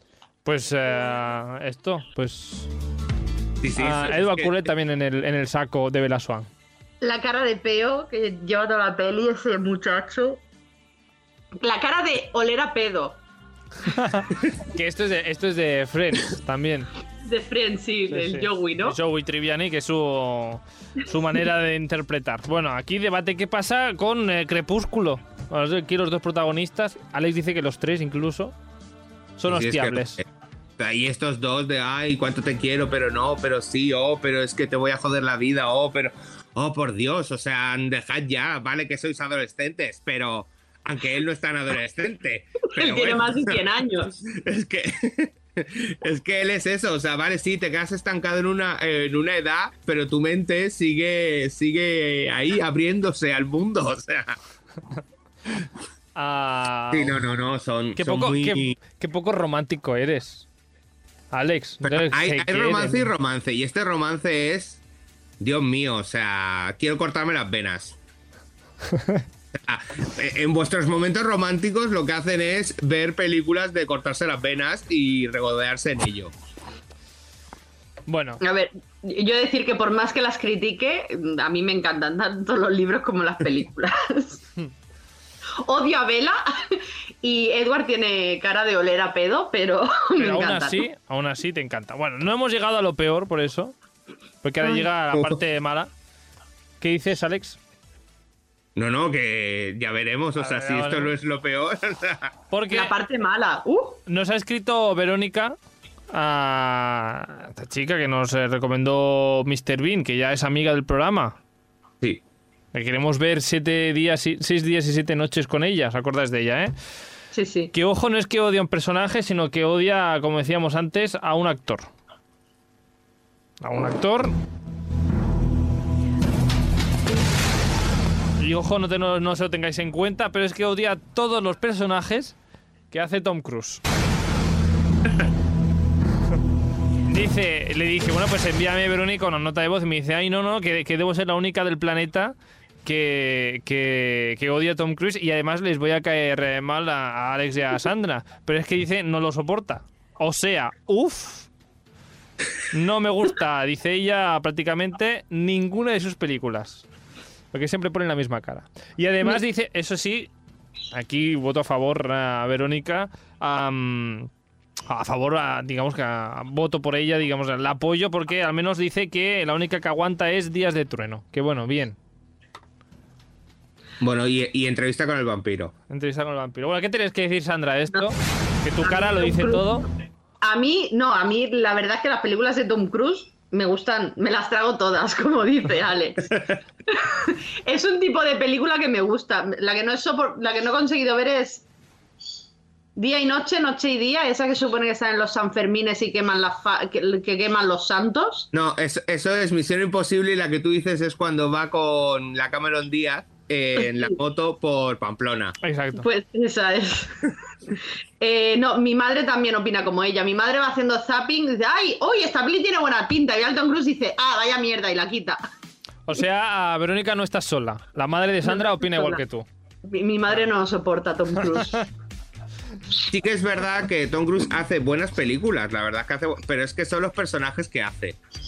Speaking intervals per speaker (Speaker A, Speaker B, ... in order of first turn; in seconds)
Speaker A: 0.4-2.7, 3.8-6.5, 13.8-16.9, 18.1-28.5, 29.4-30.2, 56.1-57.2, 58.0-60.5, 61.3-63.1, 68.9-69.2, 78.1-78.4, 90.2-93.8, 94.4-95.9, 96.8-97.6, 100.4-101.1, 102.5-102.9, 104.1-105.5, 106.1-111.4, 112.7-116.7, 117.7-121.9, 123.6-124.3, 128.4-132.3, 132.9-133.8, 137.1-151.5, 152.7-156.8, 157.5-160.3, 160.9-164.3, 164.9-171.9, 175.9-179.8, 205.6-206.1, 216.1-219.4
Speaker B: 3.6-4.6, 29.5-30.2, 30.8-43.6, 44.2-54.4, 56.9-58.8, 61.8-64.8, 65.4-68.0, 69.5-76.3, 98.8-102.3, 174.0-175.7, 198.5-205.6, 223.1-228.2
Speaker C: 7.0-10.4, 11.6-13.2, 17.2-18.9, 42.8-44.1, 78.4-84.4, 85.6-90.8, 102.7-104.0, 117.3-117.7, 178.8-179.8, 180.4-186.3, 186.9-191.7, 192.9-198.5, 205.9-215.4, 218.4-219.2, 219.8-221.8